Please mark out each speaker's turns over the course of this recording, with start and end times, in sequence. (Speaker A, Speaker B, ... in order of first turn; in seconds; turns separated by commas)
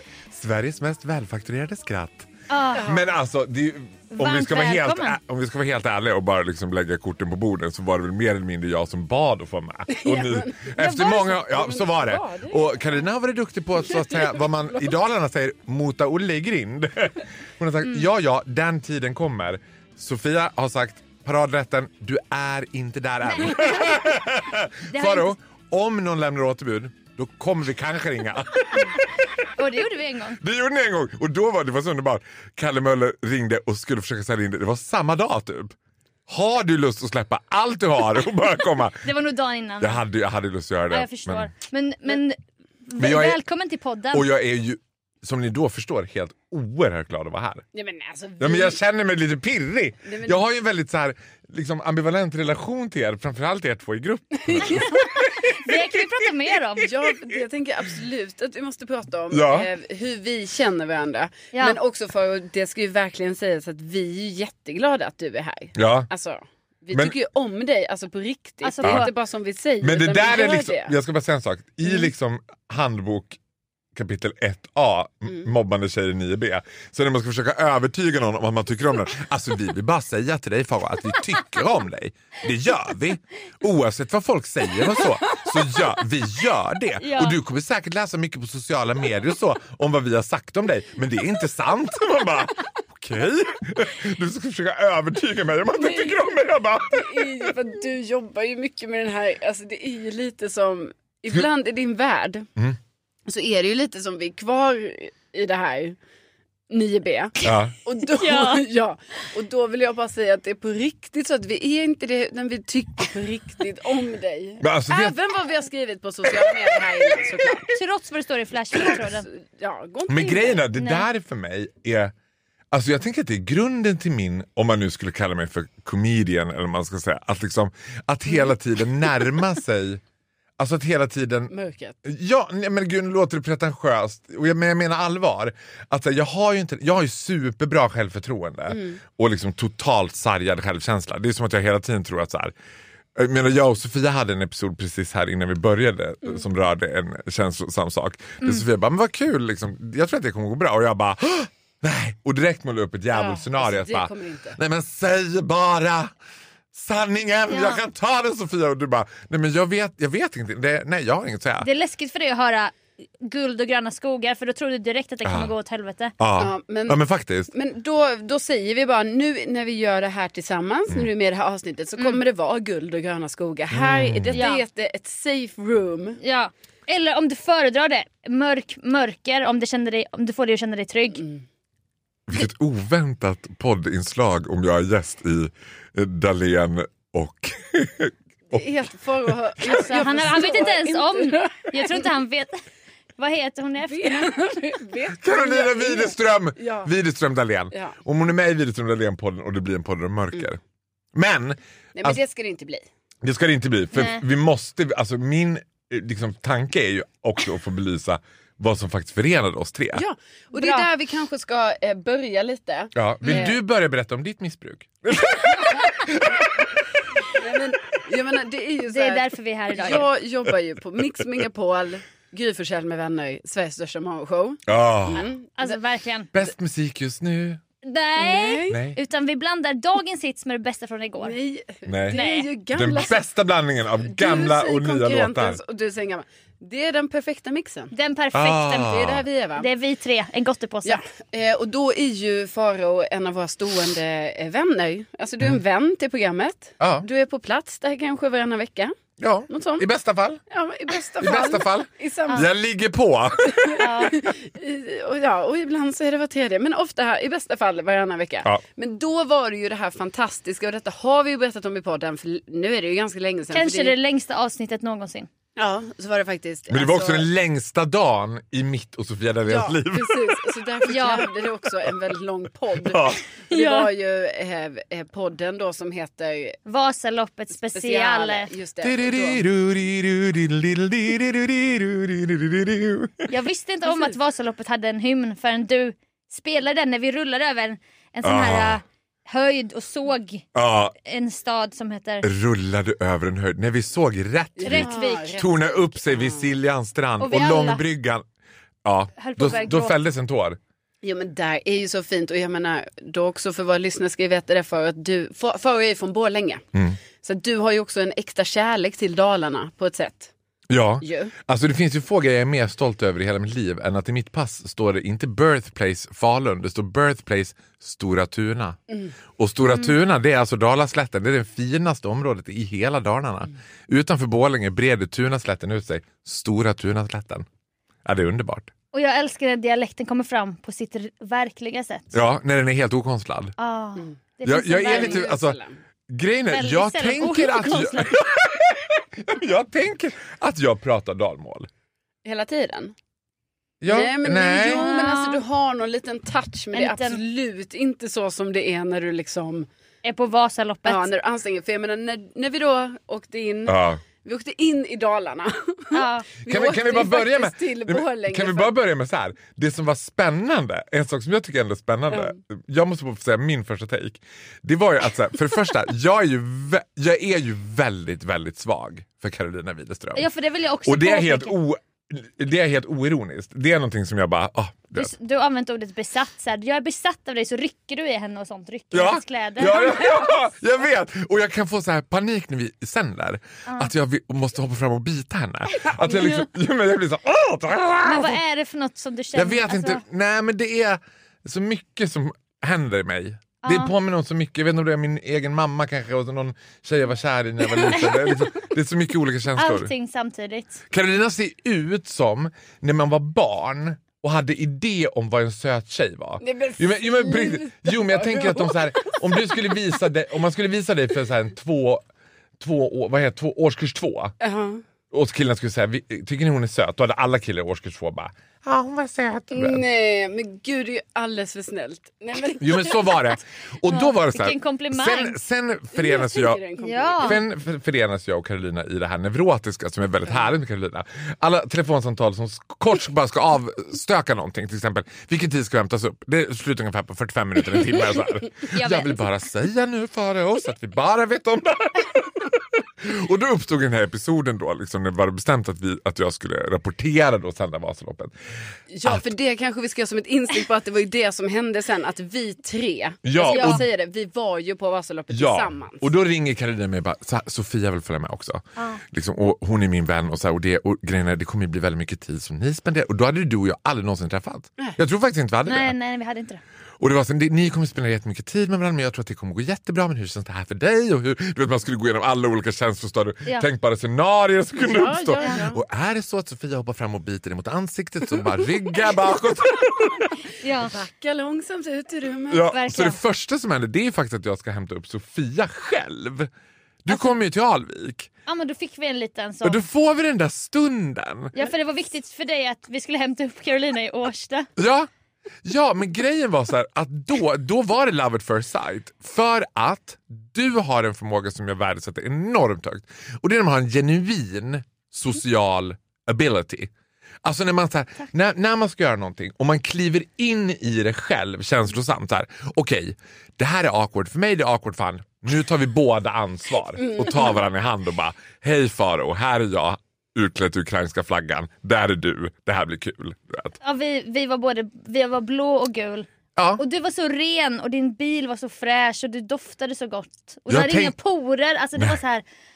Speaker A: 0.3-29.0, Speaker B: 2.5-2.9, Speaker C: 2.7-3.1, Speaker B: 4.1-5.2, Speaker C: 9.9-10.7, Speaker B: 10.8-11.4, Speaker C: 11.5-12.9, Speaker B: 23.5-24.0, Speaker B: 24.9-25.3, Speaker B: 29.0-30.4, Speaker A: 30.4-35.8, Speaker A: 36.3-39.1, Speaker B: 39.0-40.0, Speaker A: 39.8-41.5, Speaker B: 40.9-44.3, Speaker A: 43.0-43.4, Speaker A: 44.1-47.6, Speaker C: 47.7-48.8, Speaker A: 48.4-54.9, Speaker C: 50.0-50.4, Speaker C: 54.4-55.7, Speaker B: 54.7-56.9, Speaker C: 56.8-70.9, Speaker A: 59.3-59.7, Speaker A: 65.8-66.1, Speaker B: 68.6-69.1, Speaker A: 68.8-69.1, Speaker A: 69.8-73.4, Speaker A: 73.9-97.5, Speaker B: 87.0-87.4, Speaker C: 95.7-96.3, Speaker C: 96.9-102.5, Speaker C: 103.3-106.0, Speaker C: 106.7-117.7, Speaker A: 107.4-107.8, Speaker B: 108.0-108.6, Speaker A: 114.6-115.1, Speaker B: 117.7-119.3, Speaker C: 118.9-120.7, Speaker A: 120.1-122.1, Speaker B: 120.8-121.0, Speaker A: 122.7-130.0, Speaker A: 130.6-131.5, Speaker C: 131.5-132.0, Speaker A: 132.0-142.5, Speaker C: 138.7-139.0, Speaker A: 143.1-156.1, Speaker C: 153.1-154.6, Speaker A: 156.7-161.7, Speaker B: 157.5-157.8, Speaker B: 161.6-166.1, Speaker A: 165.2-165.5, Speaker A: 166.2-167.5, Speaker C: 166.4-176.2, Speaker A: 173.7-174.4, Speaker B: 174.3-174.6, Speaker B: 176.2-181.2, Speaker C: 181.1-181.4, Speaker A: 182.3-188.6, Speaker C: 188.5-192.1, Speaker A: 189.3-189.8, Speaker B: 189.6-192.6, Speaker B: 193.2-194.3, Speaker C: 193.8-196.9, Speaker A: 195.2-200.6, Speaker C: 197.7-198.0, Speaker A: 201.1-202.2, Speaker C: 201.9-202.8, Speaker A: 203.2-210.0, Speaker B: 203.9-204.2, Speaker C: 209.9-213.6, Speaker B: 210.5-210.9, Speaker A: 212.9-216.8, Speaker B: 213.2-213.5, Speaker C: 217.3-225.8, Speaker B: 218.9-220.0, Speaker A: 224.7-225.3, Speaker B: 225.6-226.3, Speaker A: 226.3-227.6, Speaker B: 227.8-231.4, Speaker C: 228.2-228.8, Speaker A: 228.7-229.0, Speaker C: 231.2-233.2, Speaker A: 231.8-232.2, Speaker B: 232.1-232.5, Speaker A: 232.7-235.6, Speaker C: 234.0-237.9, Speaker B: 237.9-239.0, Speaker A: 238.3-239.2, Speaker C: 238.8-239.7, Speaker B: 239.6-241.0, Speaker C: 240.8-248.9, Speaker A: 246.8-247.1, Speaker A: 249.2-250.4, Speaker C: 249.5-249.8, Speaker C: 250.5-252.5, Speaker A: 251.2-254.3, Speaker C: 253.7-263.9, Speaker B: 253.8-254.2, Speaker B: 263.5-265.3, Speaker C: 265.6-267.3, Speaker A: 266.7-270.6, Speaker C: 269.5-276.6, Speaker B: 270.9-271.3, Speaker A: 272.8-273.2, Speaker B: 273.5-273.9, Speaker B: 276.6-278.5, Speaker C: 277.5-279.4, Speaker A: 278.8-283.3, Speaker B: 283.3-290.5, Speaker C: 283.8-284.1, Speaker A: 288.2-288.8, Speaker A: 290.5-290.9, Speaker B: 291.0-292.3, Speaker A: 292.2-298.2, Speaker C: 294.6-296.5, Speaker B: 294.6-295.3, Speaker B: 297.2-297.8, Speaker A: 298.8-300.6, Speaker B: 299.2-300.0, Speaker C: 301.0-306.6, Speaker C: 307.2-310.3, Speaker A: 310.7-318.8, Speaker C: 311.0-311.3, Speaker A: 319.4-327.4, Speaker B: 319.6-319.9, Speaker A: 328.0-328.7, Speaker B: 328.9-332.1, Speaker A: 332.1-333.5, Speaker B: 333.6-335.2, Speaker A: 334.4-335.6, Speaker C: 334.8-335.8, Speaker A: 336.1-341.7, Speaker B: 336.5-338.1, Speaker C: 342.2-342.9, Speaker A: 343.8-344.9, Speaker C: 343.9-349.7, Speaker B: 344.3-345.4, Speaker B: 346.7-347.2, Speaker B: 350.0-351.1, Speaker C: 350.8-358.7, Speaker A: 353.7-354.0, Speaker B: 355.9-356.3, Speaker A: 356.4-370.3, Speaker C: 362.1-362.4, Speaker B: 370.1-371.6, Speaker A: 370.8-375.1, Speaker B: 374.9-380.5, Speaker A: 378.9-388.4, Speaker B: 383.7-383.9, Speaker B: 388.0-390.0, Speaker A: 389.3-399.9, Speaker B: 393.6-393.9, Speaker B: 399.6-400.8, Speaker A: 400.9-412.0, Speaker C: 406.4-409.7, Speaker A: 412.6-414.3, Speaker C: 414.4-414.8, Speaker A: 415.1-419.9, Speaker C: 419.5-423.4, Speaker A: 422.6-426.6, Speaker B: 423.8-425.4, Speaker C: 425.9-427.4, Speaker B: 426.8-427.4, Speaker A: 427.2-448.3, Speaker B: 438.7-439.3, Speaker C: 448.9-456.1, Speaker A: 453.2-453.8, Speaker B: 453.5-453.8, Speaker A: 455.3-465.9, Speaker B: 458.8-459.0, Speaker B: 465.6-466.6, Speaker A: 467.0-480.3, Speaker C: 474.8-475.8, Speaker B: 480.5-480.9, Speaker C: 480.7-482.7, Speaker A: 482.5-486.5, Speaker B: 482.7-483.2, Speaker A: 487.0-488.3, Speaker B: 487.1-487.3, Speaker B: 488.4-489.8, Speaker A: 489.6-491.5, Speaker B: 491.5-494.7, Speaker A: 494.8-495.1, Speaker A: 495.6-506.9, Speaker A: 507.4-523.8, Speaker C: 517.0-517.6, Speaker B: 523.8-532.4, Speaker A: 526.5-526.8, Speaker A: 530.7-531.1